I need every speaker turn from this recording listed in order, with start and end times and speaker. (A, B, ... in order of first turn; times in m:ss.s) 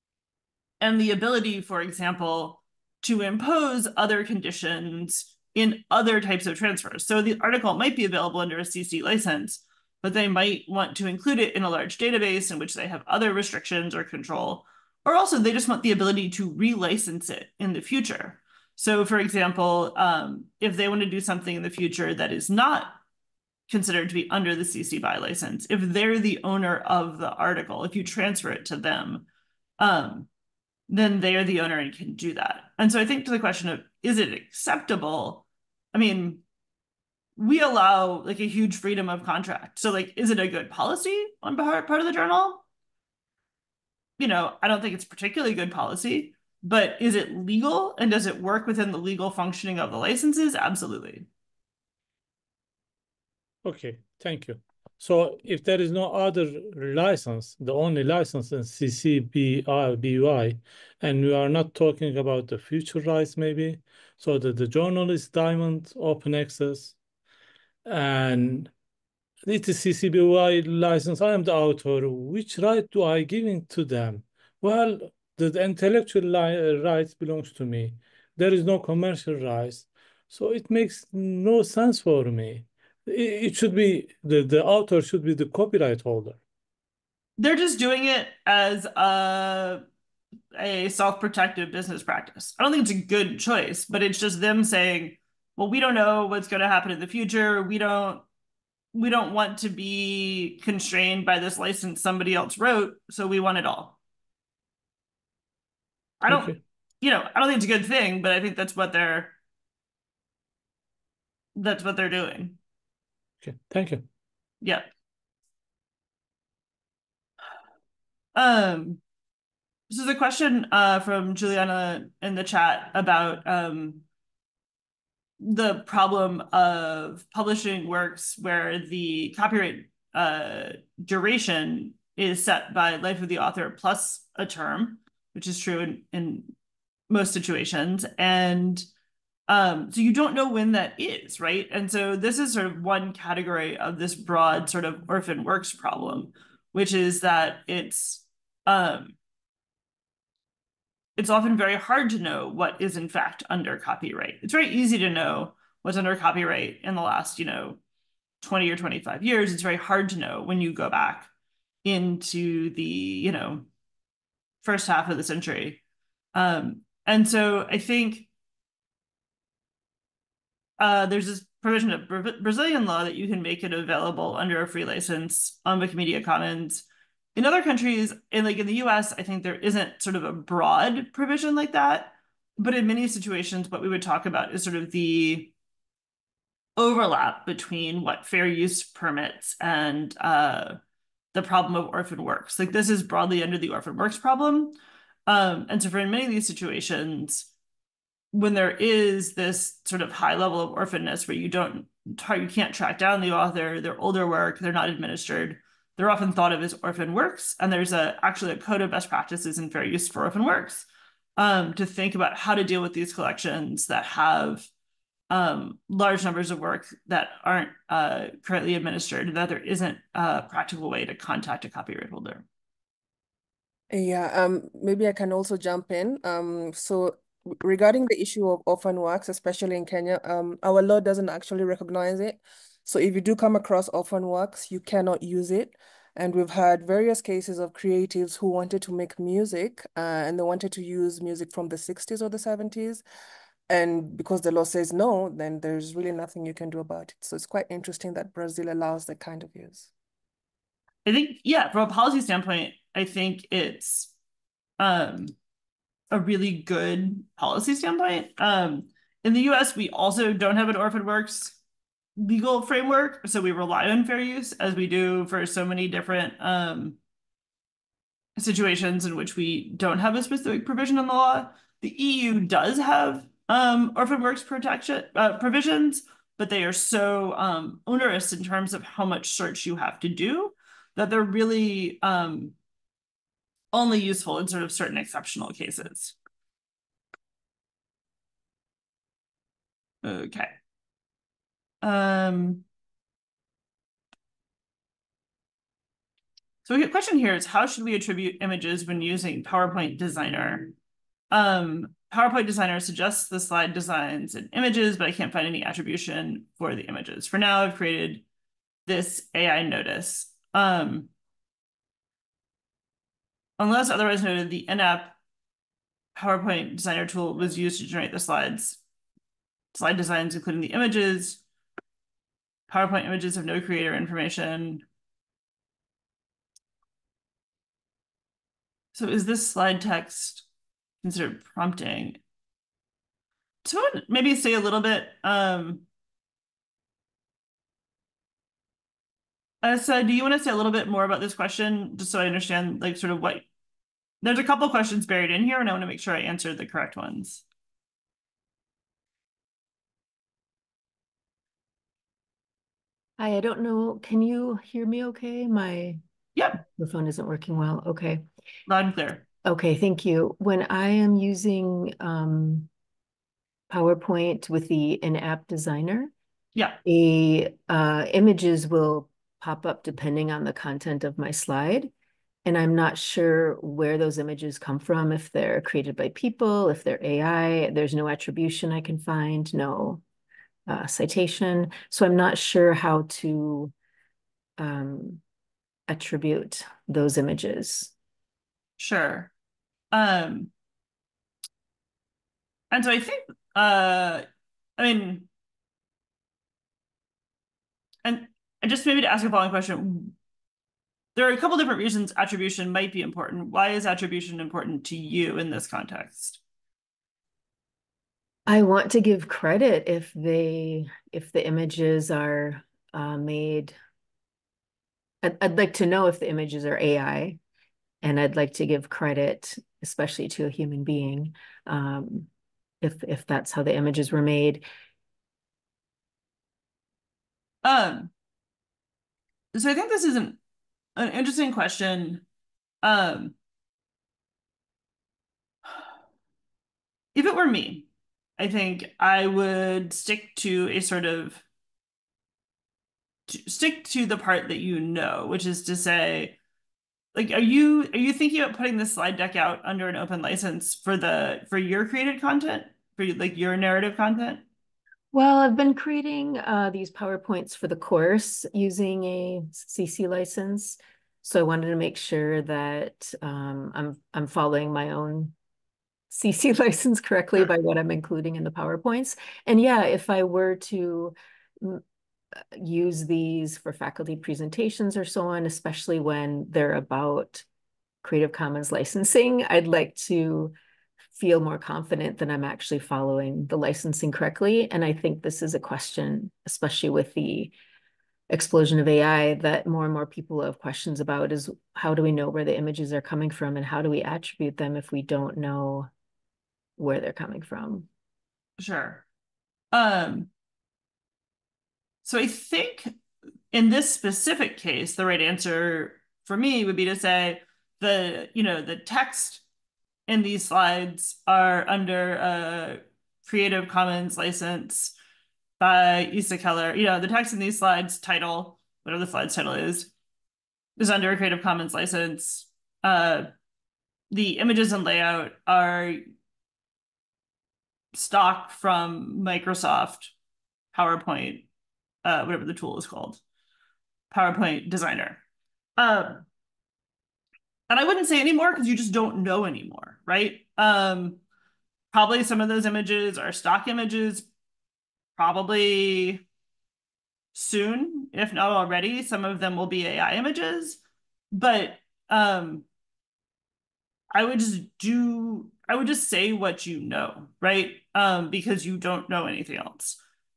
0:00.8-0:23.0 A
0:23.7-0:29.3 A
0:29.8-0:30.3 A
0:30.9-0:36.4 A
0:37.4-0:42.6 A
0:44.2-0:51.3 A
0:53.6-1:07.0 B
1:07.8-1:08.7 B
1:09.4-1:26.4 B
1:27.4-1:29.8 A
1:30.5-1:38.2 A
1:38.9-1:44.0 A
1:46.2-1:49.4 A
1:46.3-1:46.6 B
1:51.6-1:52.6 A
1:53.4-1:54.1 B
1:58.4-1:59.0 A
1:59.9-2:04.0 A
2:05.4-2:16.5 A
2:17.1-2:18.9 A
2:19.5-2:29.2 A
2:31.2-2:37.8 A
2:38.4-2:41.3 A
2:41.8-2:43.7 A
2:44.6-2:45.8 A
2:46.3-2:48.3 A
2:50.8-3:05.5 A
3:06.8-3:10.8 A
3:11.3-3:14.8 A
3:15.3-3:17.5 A
3:18.3-3:30.9 A
3:31.4-3:34.7 A
3:35.3-3:42.5 A
3:43.9-4:03.0 C
4:03.7-4:09.9 C
4:11.0-4:14.1 A
4:14.8-4:15.4 A
4:16.1-4:21.6 A
4:22.2-4:27.0 A
4:28.4-4:42.6 A
4:43.7-4:46.2 A
4:50.0-4:50.6 A
4:51.8-4:52.6 A
4:56.6-5:00.7 A
5:01.3-5:08.2 A
5:08.9-5:11.1 A
5:13.6-5:15.2 A
5:16.2-5:18.8 A
5:19.7-5:21.4 A
5:22.7-5:24.8 A
5:28.9-5:30.5 A
5:31.0-5:32.2 A
5:33.6-5:35.9 A
5:39.6-5:43.5 A
5:44.2-5:47.4 A
5:53.2-5:56.0 D
5:56.4-5:56.6 A
5:56.6-5:58.2 D
5:58.7-5:59.2 A
5:59.4-6:02.7 D
6:03.7-6:06.1 D
6:06.6-6:06.8 A
6:06.8-6:11.9 D
6:12.4-6:20.0 D
6:20.7-6:23.7 D
6:24.6-6:25.2 D
6:25.9-6:27.9 D
6:28.8-6:29.3 A
6:29.9-6:30.5 A
6:32.7-6:34.3 A
6:34.8-6:35.3 A
6:38.0-6:40.2 A
6:41.2-6:46.4 A
6:48.5-6:53.8 D
6:55.2-6:57.4 D
6:58.0-7:02.3 D
7:02.8-7:04.6 D
7:07.6-7:08.1 A
7:09.5-7:10.4 A
7:11.0-7:12.2 A
7:12.8-7:13.4 A
7:17.2-7:17.9 A
7:18.4-7:21.4 A
7:23.3-7:26.4 A
7:27.1-7:34.4 A
7:35.1-7:45.4 D
7:46.1-7:51.8 D
7:52.6-7:57.5 D
7:58.0-8:00.5 D
8:01.2-8:07.5 D
8:08.3-8:15.9 D
8:16.8-8:17.9 D
8:18.6-8:19.0 A
8:19.7-8:20.3 A
8:22.0-8:22.9 A
8:23.5-8:29.4 A
8:30.1-8:35.0 A
8:35.6-8:39.9 A
8:40.8-8:43.3 A
8:44.1-8:46.0 A
8:47.9-8:50.1 A
8:50.7-8:51.5 A
8:52.0-8:53.2 A
8:54.1-8:55.2 A
8:55.8-8:56.2 A
8:57.7-9:01.2 A
9:01.9-9:04.3 A
9:05.2-9:06.2 A
9:07.3-9:10.8 A
9:11.3-9:12.7 A
9:14.1-9:20.0 A